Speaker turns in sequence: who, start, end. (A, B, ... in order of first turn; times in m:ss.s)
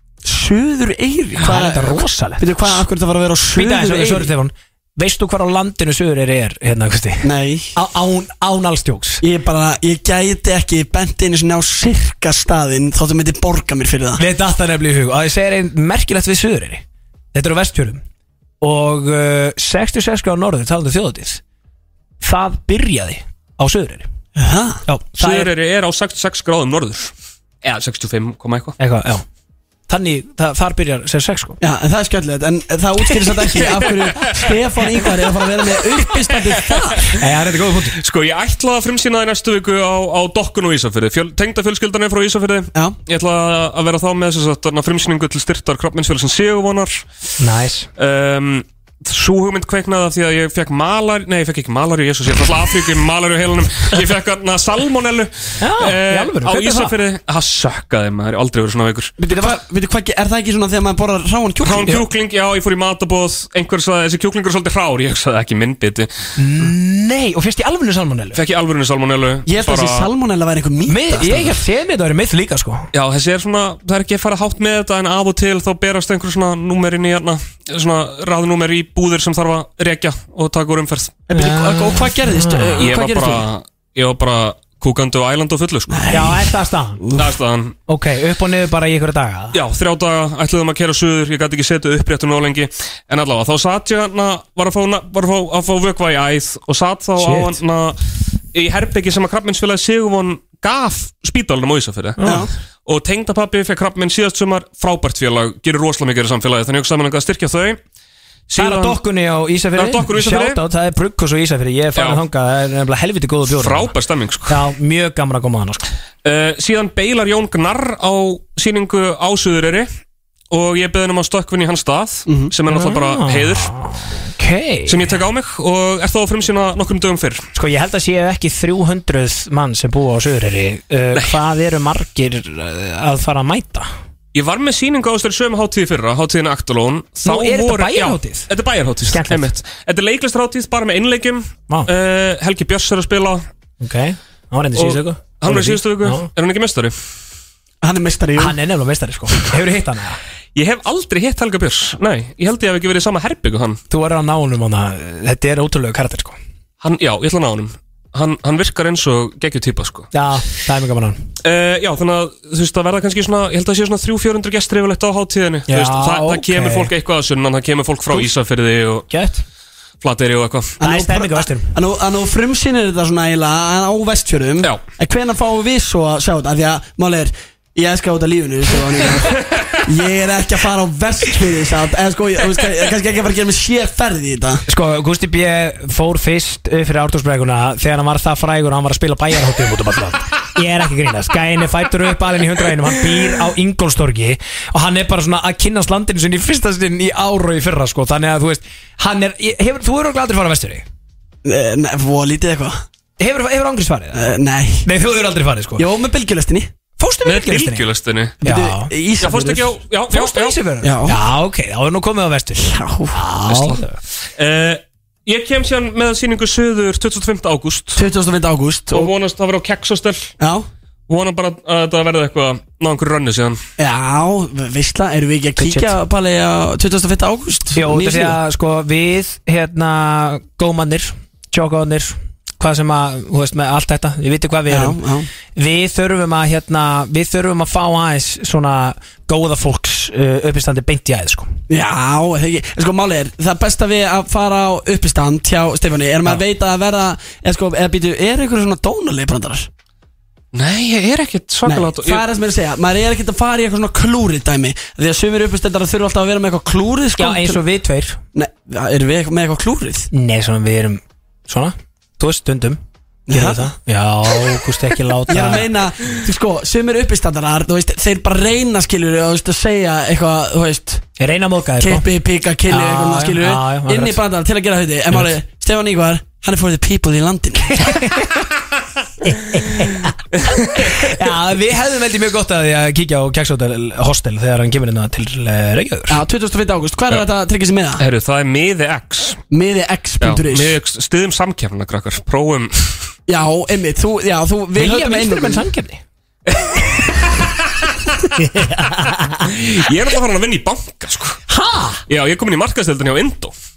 0:00.2-0:04.3 A
0:01.4-0:02.8 B
0:03.5-0:09.2 B
0:07.2-0:07.7 A
0:09.2-0:14.2 A
0:14.2-0:16.8 B
0:17.3-0:18.0 B
0:18.6-0:21.4 B
0:22.2-0:24.1 B
0:24.4-0:24.8 A
0:24.9-0:25.5 B
0:25.2-0:28.8 C
0:28.8-0:29.2 B
0:29.9-0:31.6 B
0:31.6-0:37.1 A
0:36.2-0:36.9 C
0:37.1-0:38.0 B
0:38.0-0:47.0 C
0:47.4-0:47.9 B
0:48.0-0:59.2 C
0:55.6-0:57.0 B
0:59.2-1:02.0 A
1:01.6-1:06.1 C
1:06.4-1:08.4 B
1:08.3-1:10.1 C
1:09.4-1:11.5 A
1:10.9-1:12.9 B
1:12.9-1:21.2 C
1:21.3-1:23.4 A
1:21.3-1:22.8 B
1:22.8-1:26.1 C
1:25.9-1:27.3 A
1:26.1-1:27.0 B
1:27.2-1:27.7 C
1:27.9-1:29.6 B
1:29.5-1:38.0 C
1:37.2-1:37.6 B
1:38.5-1:42.2 C
1:42.2-1:42.5 B
1:42.2-1:42.5 A
1:42.8-1:47.8 C
1:48.5-1:49.0 C
1:48.6-1:53.9 B
1:49.8-1:50.6 C
1:51.9-1:52.2 C
1:53.5-1:54.6 C
1:54.5-1:55.8 B
1:56.2-1:59.9 C
2:00.5-2:03.7 C
2:02.3-2:02.5 A
2:02.7-2:05.2 B
2:04.9-2:07.4 C
2:07.5-2:13.9 B
2:14.3-2:23.4 C
2:17.2-2:18.5 B
2:19.1-2:19.5 B
2:23.8-2:26.3 B
2:24.7-2:26.9 C
2:27.8-2:28.6 A
2:28.4-2:30.2 B
2:30.5-2:33.8 C
2:33.9-2:36.4 B
2:36.8-2:40.1 C
2:40.1-2:41.2 B
2:41.4-2:49.1 C
2:45.7-2:46.9 B
2:49.1-2:49.4 B
2:50.0-2:50.8 C
2:50.8-3:04.6 A
2:50.8-2:51.7 B
2:59.5-2:59.8 C
3:04.7-3:20.8 B
3:21.4-3:22.8 A
3:23.2-3:24.3 B
3:24.1-3:24.9 A
3:24.8-3:25.8 B
3:25.8-3:26.7 A
3:27.0-3:27.9 B
3:27.2-3:28.4 C
3:28.4-3:29.7 A
3:28.4-3:28.9 B
3:29.2-3:30.6 C
3:30.1-3:34.0 B
3:30.8-3:31.2 A
3:32.6-3:33.2 A
3:33.5-3:33.8 C
3:34.4-3:38.0 C
3:38.0-3:39.1 A
3:38.9-3:40.3 C
3:40.4-3:40.7 A
3:41.1-3:43.6 C
3:43.8-3:48.4 A
3:45.6-3:45.9 B
3:47.7-3:55.0 B
3:54.7-3:55.3 A
3:55.5-4:01.5 B
4:01.7-4:09.7 A
4:10.5-4:12.2 C
4:11.6-4:17.6 A
4:17.2-4:18.2 B
4:18.3-4:20.1 A
4:20.1-4:22.8 B
4:23.3-4:23.7 A
4:23.3-4:25.7 B
4:25.3-4:31.0 A
4:31.2-4:32.0 B
4:31.8-4:37.9 A
4:32.7-4:34.2 B
4:37.8-4:38.4 B
4:39.2-4:46.2 B
4:46.1-4:48.0 A
4:48.0-4:49.4 C
4:49.5-4:50.8 A
4:50.2-4:52.9 C
4:53.3-4:55.6 A
4:54.7-4:56.0 B
4:56.5-4:57.3 C
4:58.4-4:59.5 B
4:59.4-5:01.4 C
5:01.5-5:02.0 B
5:02.1-5:03.5 C